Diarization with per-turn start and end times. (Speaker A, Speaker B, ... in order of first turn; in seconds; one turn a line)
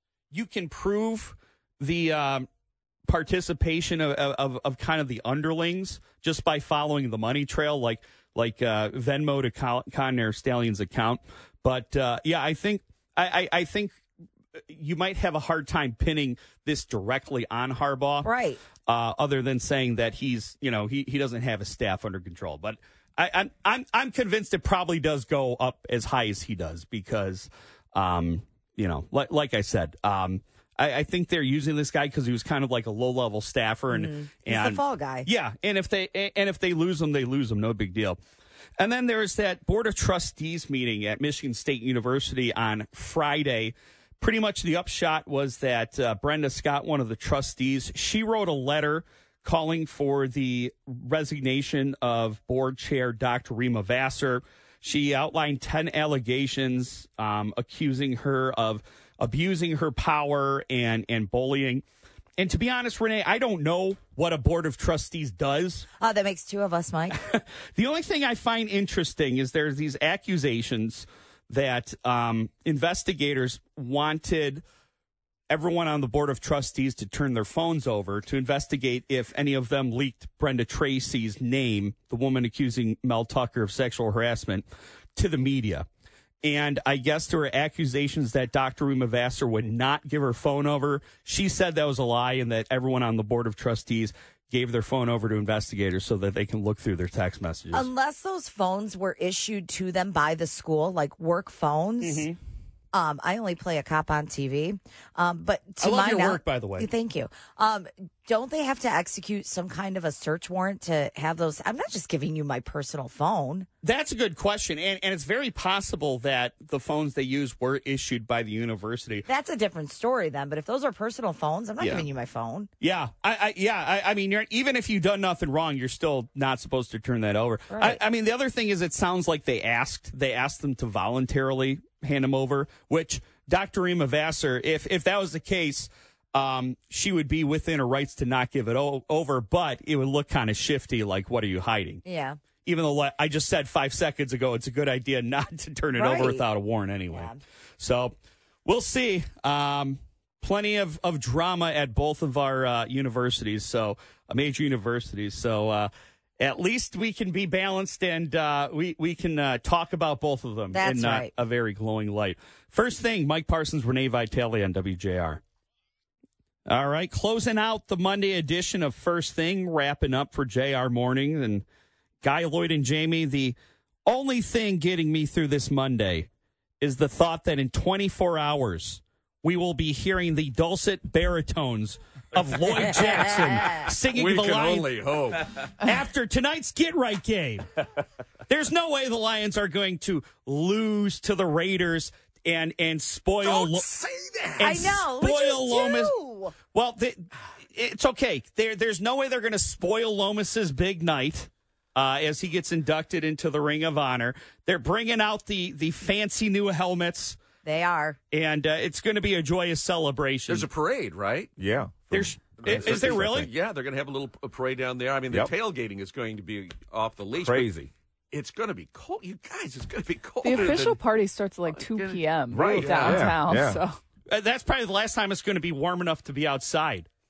Speaker A: 0.3-2.5
Speaker A: 3.1-14.0
Speaker A: 14.7-18.3
Speaker B: 18.2-18.6
Speaker A: 18.9-38.2
Speaker B: 33.9-35.3
Speaker A: 38.8-61.8
Speaker A: 62.4-65.9
Speaker B: 66.0-67.2
Speaker A: 67.2-74.6
Speaker A: 75.5-85.9
Speaker A: 86.4-97.9
Speaker B: 97.7-102.3
Speaker A: 102.0-102.4
Speaker B: 102.9-113.7
Speaker A: 105.8-106.9
Speaker A: 113.8-119.2
Speaker B: 119.3-122.7
Speaker A: 121.8-122.1
Speaker A: 122.8-142.0
Speaker B: 127.7-128.0
Speaker B: 142.1-142.4
Speaker A: 142.6-148.1
Speaker B: 145.9-146.4
Speaker B: 147.1-147.4
Speaker A: 148.6-165.4
Speaker B: 160.7-161.3
Speaker A: 166.7-171.7
Speaker A: 172.2-176.3
Speaker A: 176.8-184.9
Speaker C: 182.8-183.4
Speaker C: 184.1-185.7
Speaker A: 185.8-187.7
Speaker A: 188.5-193.9
Speaker C: 193.4-194.9
Speaker A: 194.6-196.1
Speaker B: 194.6-196.6
Speaker A: 196.7-207.4
Speaker B: 207.6-208.2
Speaker A: 208.3-210.7
Speaker C: 210.5-211.5
Speaker D: 211.6-213.5
Speaker C: 212.1-217.7
Speaker A: 212.1-213.5
Speaker D: 217.3-217.9
Speaker C: 218.3-221.0
Speaker E: 220.4-224.0
Speaker C: 221.6-223.4
Speaker D: 222.5-223.8
Speaker A: 224.3-227.1